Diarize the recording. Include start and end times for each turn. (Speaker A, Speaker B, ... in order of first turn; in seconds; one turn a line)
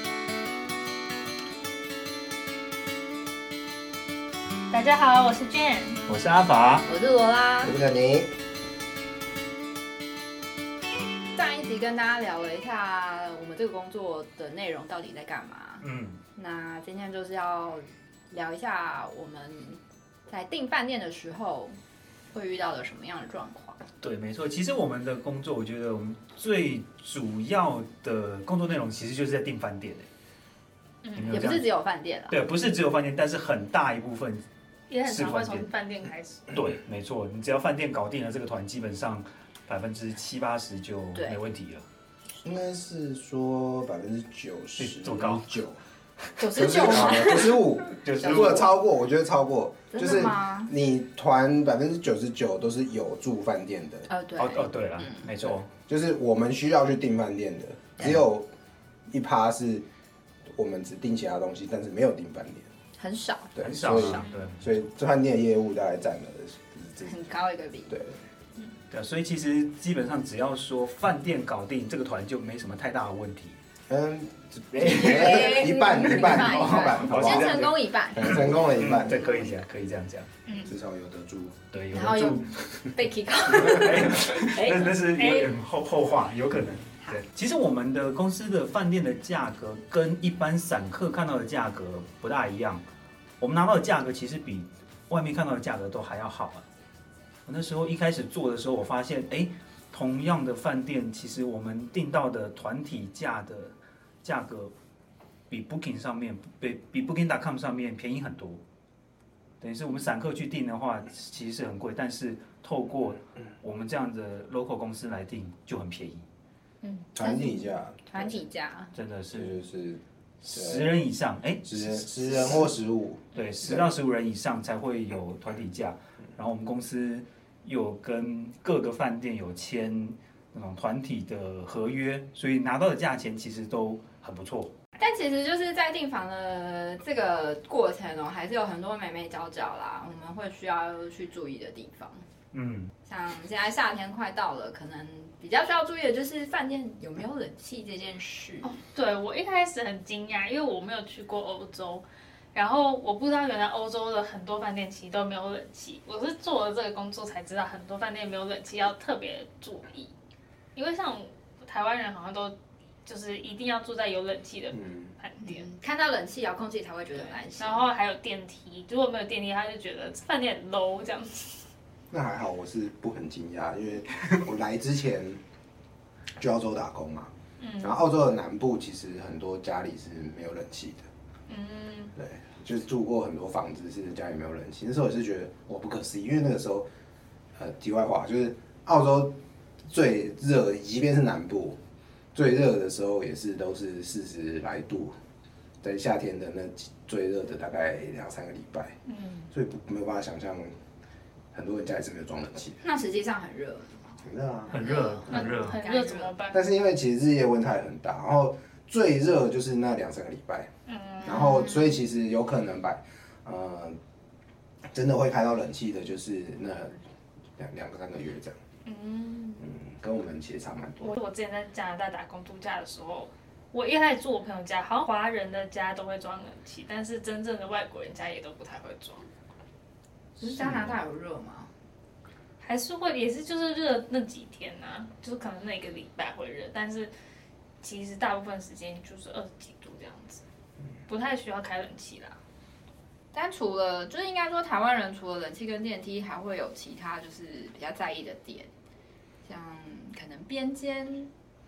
Speaker A: 4.7-6.0
Speaker B: 6.1-6.9
Speaker C: 6.9-7.8
Speaker D: 7.6-8.3
Speaker C: 11.3-21.8
Speaker B: 15.8-16.2
Speaker C: 22.3-23.8
Speaker B: 24.0-30.1
Speaker A: 31.0-31.5
Speaker B: 31.2-31.7
Speaker C: 31.3-32.4
Speaker B: 32.3-34.5
Speaker A: 34.9-36.5
Speaker B: 35.1-35.7
Speaker B: 36.5-41.8
Speaker D: 42.4-45.8
Speaker B: 44.8-45.5
Speaker C: 46.4-48.5
Speaker D: 46.4-54.1
Speaker A: 46.6-46.9
Speaker B: 48.0-48.7
Speaker C: 49.9-50.7
Speaker C: 54.1-55.3
Speaker B: 54.4-55.7
Speaker D: 55.9-58.5
Speaker D: 59.1-59.9
Speaker D: 60.5-62.7
Speaker C: 63.0-64.3
Speaker D: 63.6-67.1
Speaker B: 63.6-64.6
Speaker C: 67.0-68.0
Speaker D: 67.9-68.2
Speaker B: 68.9-73.6
Speaker D: 73.9-79.5
Speaker C: 74.8-79.6
Speaker B: 74.9-75.5
Speaker B: 76.2-80.3
Speaker A: 80.5-80.7
Speaker D: 80.7-81.7
Speaker B: 81.7-82.6
Speaker C: 81.9-85.0
Speaker B: 83.5-92.8
Speaker A: 85.1-85.5
Speaker B: 93.4-96.6
Speaker B: 97.5-104.7
Speaker B: 105.5-108.6
Speaker B: 109.6-116.2
Speaker D: 117.2-118.4
Speaker C: 117.2-118.9
Speaker B: 118.9-119.6
Speaker D: 119.3-121.0
Speaker B: 120.4-122.7
Speaker D: 121.7-123.9
Speaker B: 123.3-134.8
Speaker C: 135.0-142.2
Speaker B: 142.5-142.9
Speaker C: 143.1-148.8
Speaker A: 148.6-160.1
Speaker A: 160.8-165.7
Speaker D: 164.7-165.1
Speaker C: 165.4-167.9
Speaker A: 167.2-171.6
Speaker D: 172.1-175.4
Speaker D: 176.4-181.1
Speaker A: 177.6-178.0
Speaker A: 181.5-182.2
Speaker D: 182.2-186.9
Speaker D: 187.6-191.8
Speaker D: 192.3-195.2
Speaker D: 195.8-199.0
Speaker A: 199.1-199.5
Speaker D: 199.5-200.7
Speaker D: 201.5-202.8
Speaker C: 202.8-204.2
Speaker D: 204.2-205.5
Speaker B: 204.7-205.8
Speaker C: 204.8-206.3
Speaker A: 205.3-206.6
Speaker D: 206.5-210.7
Speaker A: 210.9-211.7
Speaker D: 211.2-214.0
Speaker C: 211.3-211.7
Speaker D: 214.9-217.0
Speaker D: 217.6-218.6
Speaker A: 218.8-219.7
Speaker D: 219.6-221.2
Speaker A: 221.0-229.2
Speaker C: 230.4-231.7
Speaker A: 232.6-237.1
Speaker A: 237.8-240.4
Speaker A: 241.1-242.4
Speaker C: 243.3-248.7
Speaker C: 249.4-251.3